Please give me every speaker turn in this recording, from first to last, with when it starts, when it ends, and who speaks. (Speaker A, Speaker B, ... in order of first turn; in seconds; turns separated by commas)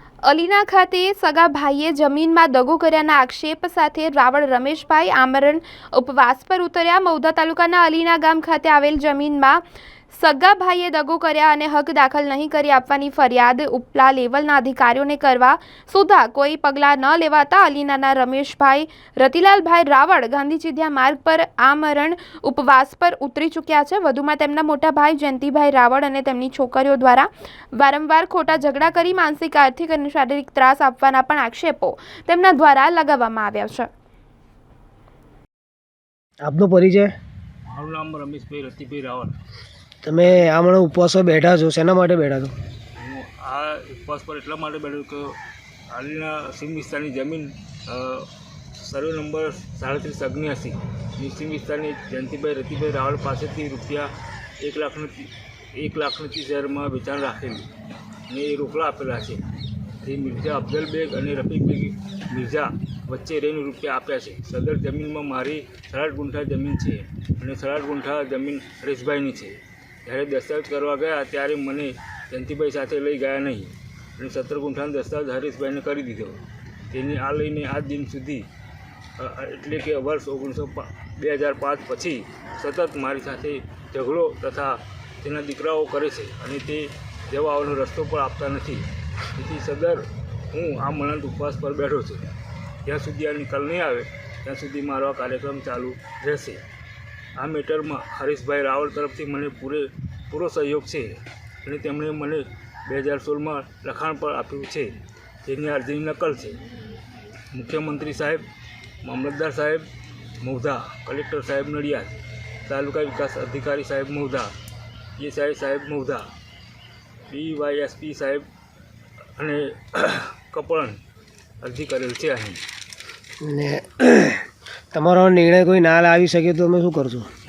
Speaker A: 0.2-33.9, Speaker B: 36.4-37.1, Speaker C: 37.6-39.3, Speaker B: 40.0-42.5, Speaker C: 43.0-45.4, Speaker C: 45.9-54.1, Speaker C: 54.6-57.7, Speaker C: 58.3-59.4, Speaker C: 60.0-78.5, Speaker C: 79.2-92.3, Speaker C: 92.8-96.6, Speaker C: 97.4-106.6, Speaker C: 107.5-108.4, Speaker C: 109.0-109.8, Speaker C: 110.4-114.5, Speaker C: 115.2-116.2, Speaker C: 117.3-118.5, Speaker C: 119.4-121.0, Speaker C: 121.6-122.6, Speaker B: 123.4-127.3